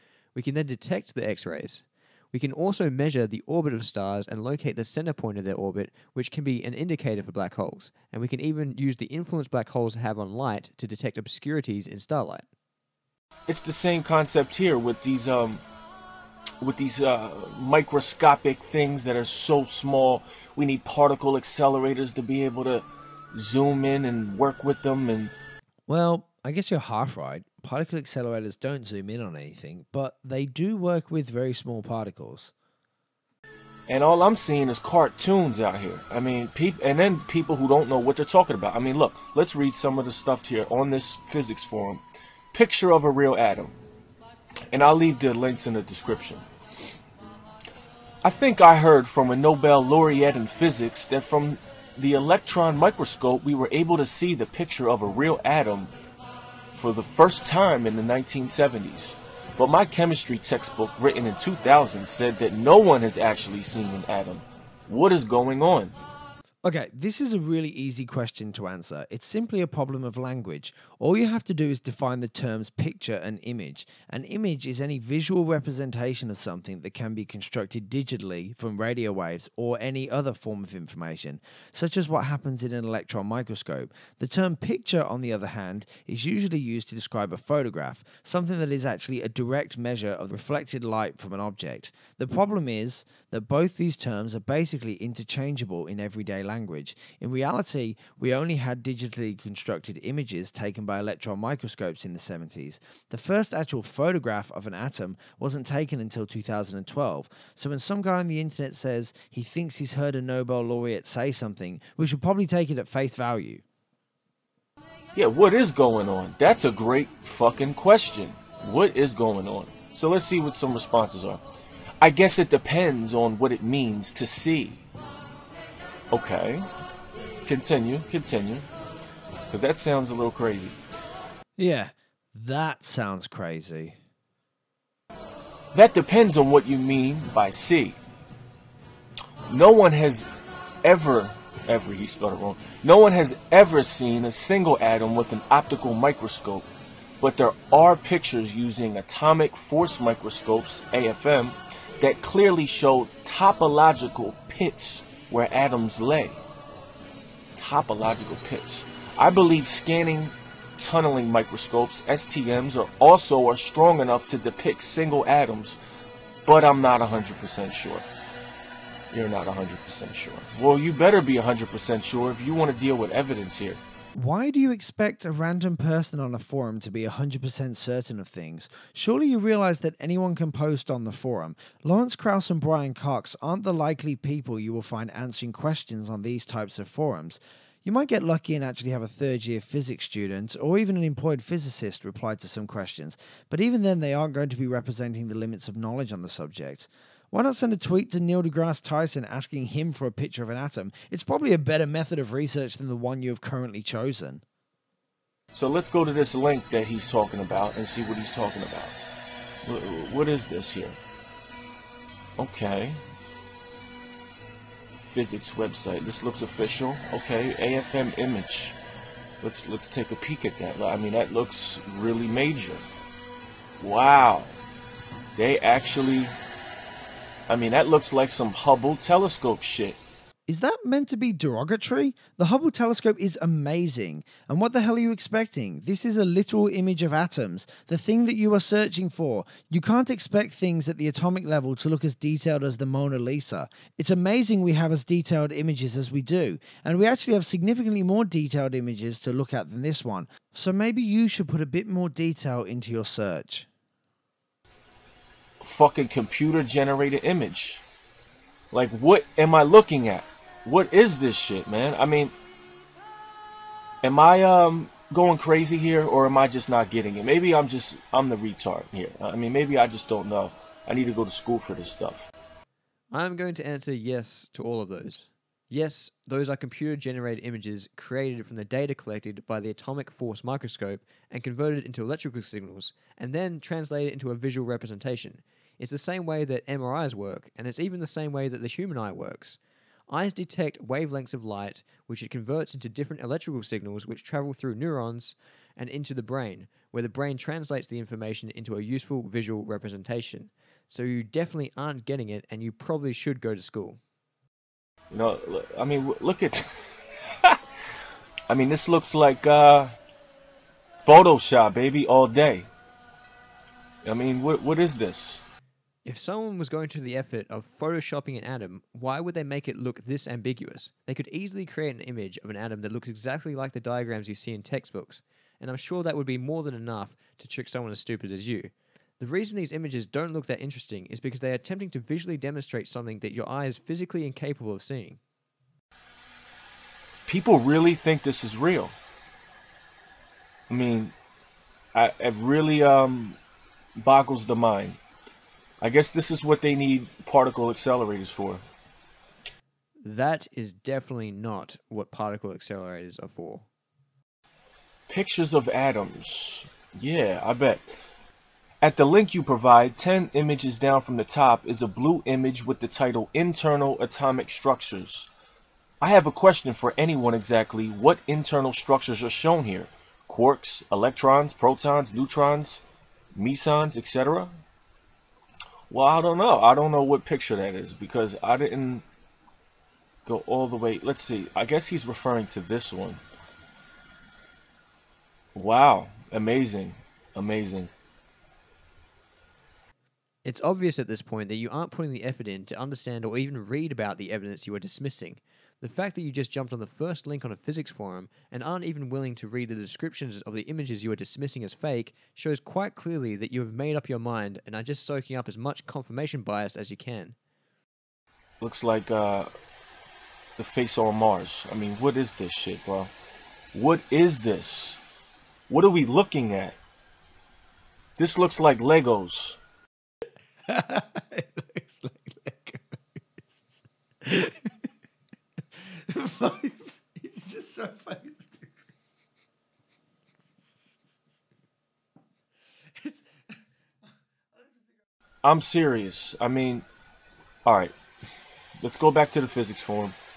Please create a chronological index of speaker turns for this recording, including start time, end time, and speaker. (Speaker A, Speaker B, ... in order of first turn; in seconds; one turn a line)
Speaker A: 0.3-12.4
Speaker B: 13.5-15.6
Speaker B: 16.6-25.3
Speaker C: 25.9-32.5
Speaker B: 33.9-42.0
Speaker B: 42.5-43.8
Speaker B: 44.7-46.5
Speaker B: 48.2-55.9
Speaker B: 56.7-65.9
Speaker C: 66.6-113.6
Speaker B: 115.1-121.4
Speaker B: 122.0-124.8
Speaker B: 126.1-126.7
Speaker B: 127.5-128.7
Speaker B: 129.5-130.8
Speaker C: 131.6-133.9
Speaker B: 135.7-138.0
Speaker B: 139.5-140.3
Speaker B: 140.8-146.7
Speaker B: 147.2-156.4
Speaker B: 157.6-165.8
Speaker B: 166.4-168.1
Speaker B: 169.1-173.8
Speaker C: 174.1-204.4
Speaker B: 205.5-208.9
Speaker B: 209.7-211.0
Speaker B: 212.4-213.0
Speaker B: 215.0-218.8
Speaker B: 219.4-222.8
Speaker B: 223.8-224.6
Speaker B: 225.3-226.4
Speaker B: 227.5-230.0
Speaker C: 230.5-253.7
Speaker B: 255.6-257.8
Speaker B: 258.7-262.3
Speaker B: 264.0-272.3
Speaker A: 273.1-304.0
Speaker B: 305.1-306.7
Speaker B: 308.5-309.9
Speaker B: 311.0-312.7
Speaker B: 314.0-315.4
Speaker A: 316.0-335.2
Speaker B: 337.3-338.9
Speaker B: 340.7-341.1
Speaker B: 341.9-343.4
Speaker B: 343.9-345.0
Speaker B: 345.8-348.6
Speaker A: 350.0-353.6
Speaker B: 355.1-357.9
Speaker B: 358.8-365.3
Speaker B: 366.0-372.8
Speaker B: 373.3-374.5
Speaker B: 375.9-379.0
Speaker B: 380.2-383.2
Speaker B: 385.5-387.9
Speaker A: 390.4-407.4
Speaker B: 408.6-409.5
Speaker B: 410.6-413.1
Speaker B: 413.7-415.0
Speaker B: 415.7-416.8
Speaker B: 418.2-419.6
Speaker C: 420.7-423.6
Speaker C: 424.2-424.8
Speaker C: 425.8-428.7
Speaker C: 433.0-433.2
Speaker B: 435.4-436.8
Speaker B: 437.6-437.9
Speaker B: 438.8-440.1